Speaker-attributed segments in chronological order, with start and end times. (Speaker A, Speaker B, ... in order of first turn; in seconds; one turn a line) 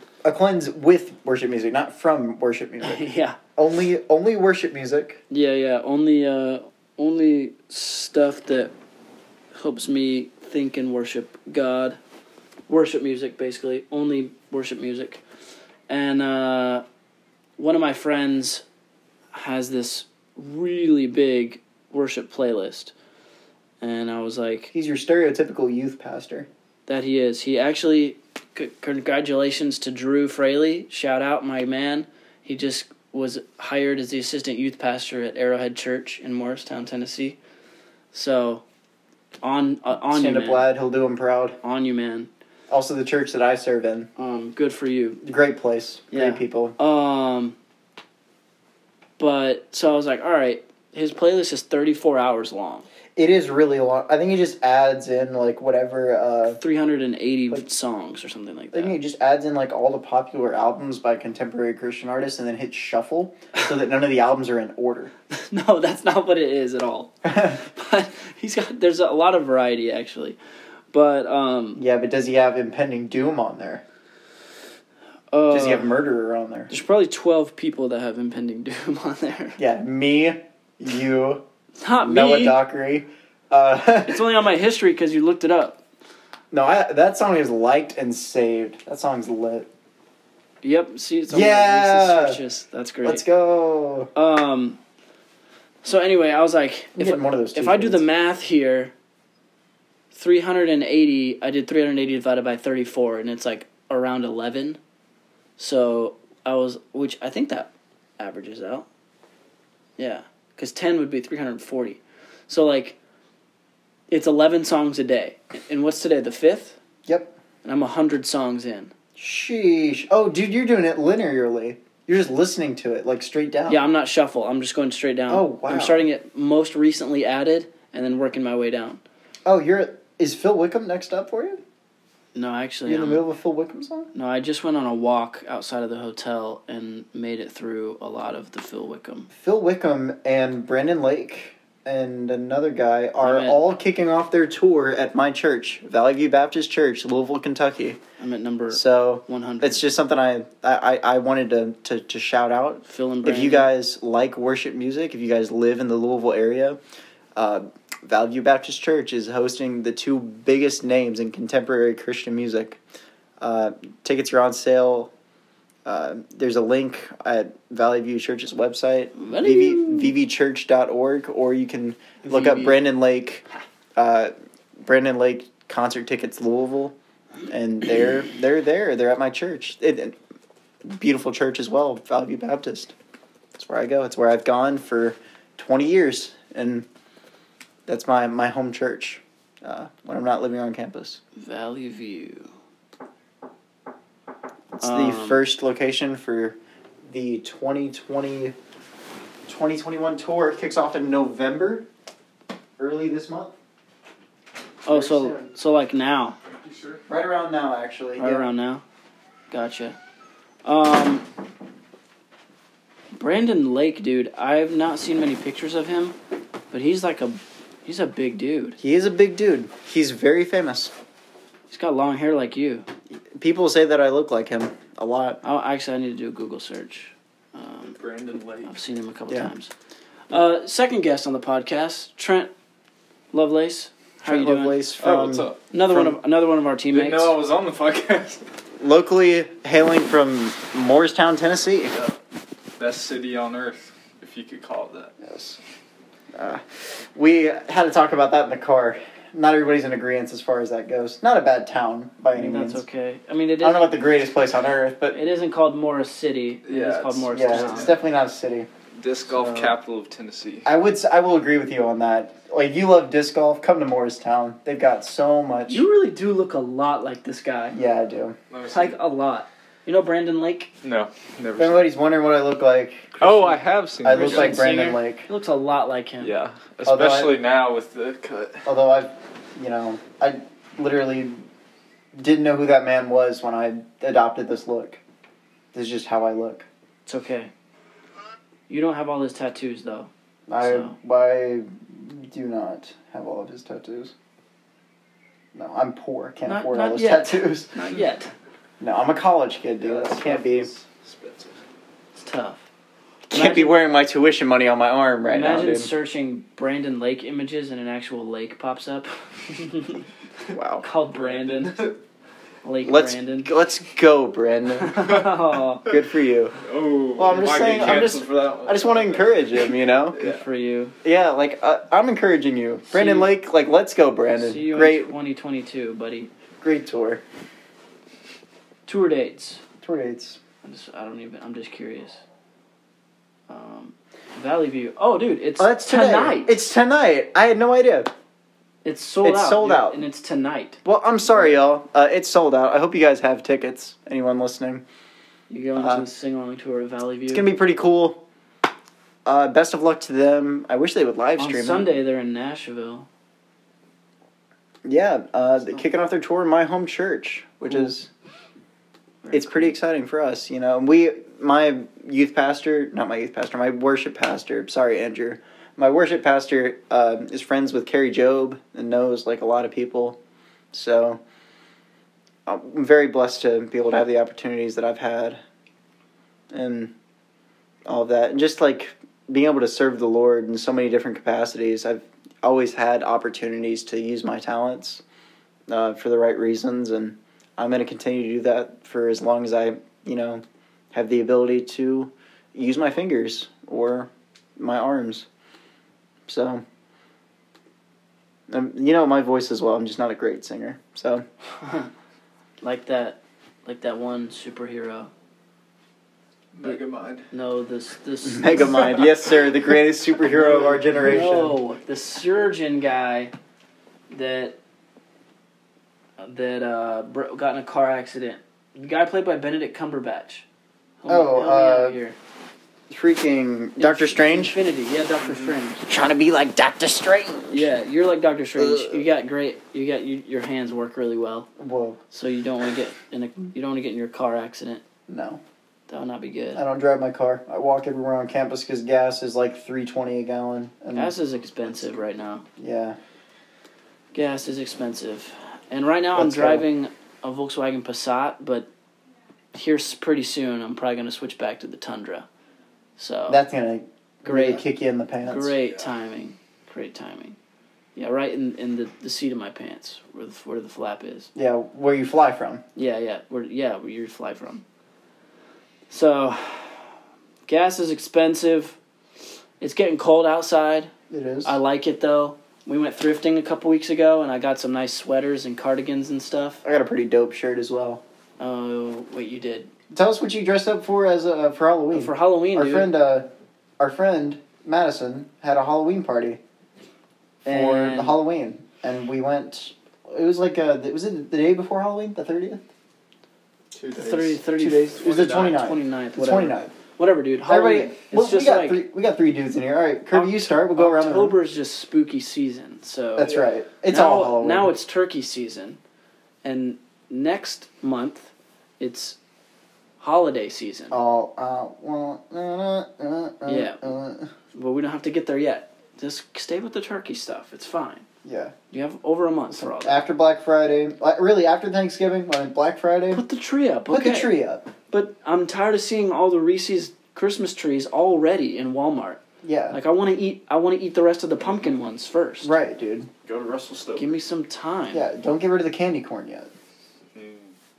Speaker A: 0.2-3.1
Speaker B: 2.8-3.4
Speaker A: 3.6-5.2
Speaker B: 5.3-8.7
Speaker B: 9.5-12.0
Speaker B: 12.7-15.2
Speaker B: 15.9-16.8
Speaker B: 17.6-18.6
Speaker B: 19.3-22.9
Speaker B: 23.8-24.7
Speaker A: 24.7-26.5
Speaker B: 26.9-37.4
Speaker B: 38.1-38.6
Speaker B: 39.4-40.7
Speaker A: 40.1-41.6
Speaker B: 41.6-42.3
Speaker A: 42.7-44.1
Speaker B: 44.2-45.2
Speaker A: 45.2-46.8
Speaker B: 46.1-47.6
Speaker B: 49.2-52.9
Speaker A: 53.2-56.6
Speaker B: 56.6-59.0
Speaker A: 58.7-65.1
Speaker B: 65.3-70.4
Speaker A: 67.2-67.6
Speaker B: 70.9-71.8
Speaker A: 71.8-73.8
Speaker B: 75.3-76.0
Speaker A: 75.5-76.7
Speaker B: 76.7-79.6
Speaker A: 79.6-81.4
Speaker B: 81.8-82.6
Speaker A: 82.0-84.2
Speaker B: 84.1-85.8
Speaker A: 86.5-89.7
Speaker B: 90.6-93.2
Speaker A: 91.3-92.4
Speaker A: 93.0-94.1
Speaker B: 94.2-94.8
Speaker B: 95.8-98.9
Speaker A: 97.0-98.0
Speaker B: 100.1-104.8
Speaker B: 105.6-108.9
Speaker B: 110.0-113.0
Speaker B: 114.1-116.8
Speaker A: 117.1-117.4
Speaker B: 117.6-118.9
Speaker A: 119.2-123.9
Speaker B: 123.7-129.0
Speaker A: 125.3-126.1
Speaker A: 129.5-131.6
Speaker B: 132.3-133.2
Speaker A: 132.9-134.1
Speaker B: 134.1-139.3
Speaker A: 139.3-148.0
Speaker B: 143.2-143.6
Speaker B: 148.2-149.8
Speaker A: 148.7-156.8
Speaker B: 152.9-153.7
Speaker A: 157.4-162.8
Speaker A: 163.4-165.1
Speaker A: 165.8-173.4
Speaker B: 169.2-170.2
Speaker B: 172.2-172.8
Speaker A: 174.0-174.3
Speaker A: 174.8-176.9
Speaker A: 177.5-180.2
Speaker A: 180.8-182.9
Speaker A: 183.6-186.9
Speaker A: 187.9-191.2
Speaker B: 191.4-192.5
Speaker A: 194.7-196.6
Speaker B: 194.8-195.4
Speaker A: 197.1-198.6
Speaker A: 199.5-201.9
Speaker A: 202.8-203.5
Speaker B: 204.8-206.4
Speaker A: 204.9-205.5
Speaker C: 206.6-207.0
Speaker A: 207.1-208.5
Speaker B: 208.2-208.8
Speaker B: 209.5-210.0
Speaker B: 210.7-211.3
Speaker B: 213.2-216.2
Speaker B: 216.7-218.8
Speaker A: 218.8-220.9
Speaker B: 221.7-222.9
Speaker A: 223.3-225.4
Speaker B: 225.4-228.0
Speaker C: 227.8-228.8
Speaker B: 228.7-229.7
Speaker B: 230.3-232.5
Speaker B: 233.3-234.8
Speaker A: 234.2-236.2
Speaker C: 235.0-235.6
Speaker B: 235.7-237.3
Speaker C: 236.9-238.4
Speaker A: 238.8-242.0
Speaker C: 242.8-245.2
Speaker A: 245.2-245.6
Speaker A: 246.3-252.8
Speaker B: 252.3-253.9
Speaker A: 253.6-255.2
Speaker B: 255.1-258.0
Speaker C: 256.6-258.0
Speaker A: 257.3-258.7
Speaker C: 259.0-260.7
Speaker A: 259.4-259.7
Speaker A: 260.6-265.8
Speaker B: 265.7-267.8
Speaker A: 267.7-268.4
Speaker C: 268.5-269.0
Speaker B: 268.7-270.7
Speaker C: 270.8-271.9
Speaker A: 271.6-275.3
Speaker C: 273.2-274.6
Speaker B: 274.1-276.3
Speaker C: 276.2-278.7
Speaker A: 276.9-277.4
Speaker A: 278.6-281.4
Speaker A: 282.1-285.0
Speaker A: 285.7-286.7
Speaker B: 287.1-287.5
Speaker B: 288.7-290.1
Speaker A: 290.5-294.1
Speaker B: 290.6-290.9
Speaker A: 295.5-297.7
Speaker B: 296.4-298.3
Speaker A: 298.8-300.7
Speaker C: 299.8-301.6
Speaker B: 302.2-302.6
Speaker A: 303.3-305.9
Speaker B: 303.3-303.8
Speaker B: 305.3-310.1
Speaker A: 310.5-310.9
Speaker B: 310.8-311.9
Speaker C: 311.1-312.0
Speaker B: 312.6-313.5
Speaker A: 312.8-315.0
Speaker B: 314.8-315.9
Speaker C: 315.0-315.9
Speaker A: 315.9-316.6
Speaker C: 316.6-320.4
Speaker A: 317.2-320.2
Speaker B: 320.2-320.9
Speaker A: 321.0-325.1
Speaker B: 322.9-323.3
Speaker B: 324.3-326.3
Speaker A: 326.6-327.2
Speaker B: 328.9-329.6
Speaker A: 329.8-330.4
Speaker B: 330.6-332.2
Speaker B: 333.5-336.6
Speaker A: 335.6-338.1
Speaker B: 338.8-340.8
Speaker A: 339.2-340.0
Speaker A: 340.8-344.8
Speaker B: 345.5-347.5
Speaker A: 345.8-346.1
Speaker A: 347.3-348.2
Speaker A: 349.2-351.9
Speaker B: 351.4-353.1
Speaker A: 354.9-358.1
Speaker B: 357.7-357.9
Speaker B: 359.2-359.8
Speaker A: 359.3-370.2
Speaker A: 370.7-371.2
Speaker A: 372.5-375.4
Speaker A: 376.5-376.9
Speaker A: 377.9-385.0
Speaker A: 385.7-395.3
Speaker A: 396.3-396.6
Speaker A: 398.5-401.2
Speaker B: 401.6-401.9
Speaker B: 402.6-405.1
Speaker C: 406.5-407.3
Speaker B: 406.6-409.1
Speaker A: 408.2-411.6
Speaker C: 410.3-410.8
Speaker B: 411.0-413.3
Speaker B: 414.1-414.6
Speaker B: 416.2-420.5
Speaker B: 421.0-422.2
Speaker A: 421.1-422.0
Speaker A: 422.9-424.6
Speaker B: 423.8-425.9
Speaker C: 425.2-425.5
Speaker A: 425.9-427.7
Speaker B: 427.5-431.5
Speaker A: 428.6-429.0
Speaker A: 431.6-432.0
Speaker B: 432.1-434.8
Speaker A: 435.1-435.4
Speaker B: 435.9-436.6
Speaker A: 436.5-441.1
Speaker B: 440.9-442.5
Speaker A: 442.6-443.0
Speaker B: 444.1-448.7
Speaker A: 446.1-446.6
Speaker B: 449.5-452.3
Speaker B: 453.0-453.4
Speaker A: 453.3-455.6
Speaker B: 454.2-454.6
Speaker B: 455.2-457.4
Speaker B: 458.0-461.3
Speaker A: 461.4-462.6
Speaker B: 462.8-464.6
Speaker B: 465.9-466.9
Speaker B: 467.5-468.8
Speaker B: 469.6-470.9
Speaker A: 471.1-471.6
Speaker B: 471.4-476.6
Speaker A: 476.6-478.0
Speaker B: 478.4-479.7
Speaker A: 479.9-483.3
Speaker B: 481.9-482.9
Speaker A: 483.8-486.4
Speaker B: 487.4-488.2
Speaker A: 487.5-492.6
Speaker C: 493.7-494.4
Speaker B: 494.0-498.8
Speaker A: 494.6-496.7
Speaker A: 497.4-501.4
Speaker B: 500.1-503.4
Speaker A: 503.2-504.7
Speaker B: 503.9-505.8
Speaker B: 506.4-509.2
Speaker B: 510.0-511.0
Speaker A: 510.9-514.3
Speaker B: 513.5-513.9
Speaker B: 514.5-518.1
Speaker A: 518.2-518.5
Speaker B: 518.7-520.0
Speaker A: 519.5-523.2
Speaker B: 523.1-524.3
Speaker A: 523.9-524.7
Speaker B: 524.9-532.5
Speaker A: 529.4-529.8
Speaker A: 532.4-533.1
Speaker C: 533.2-534.2
Speaker B: 534.0-535.1
Speaker A: 534.9-536.5
Speaker C: 537.1-537.5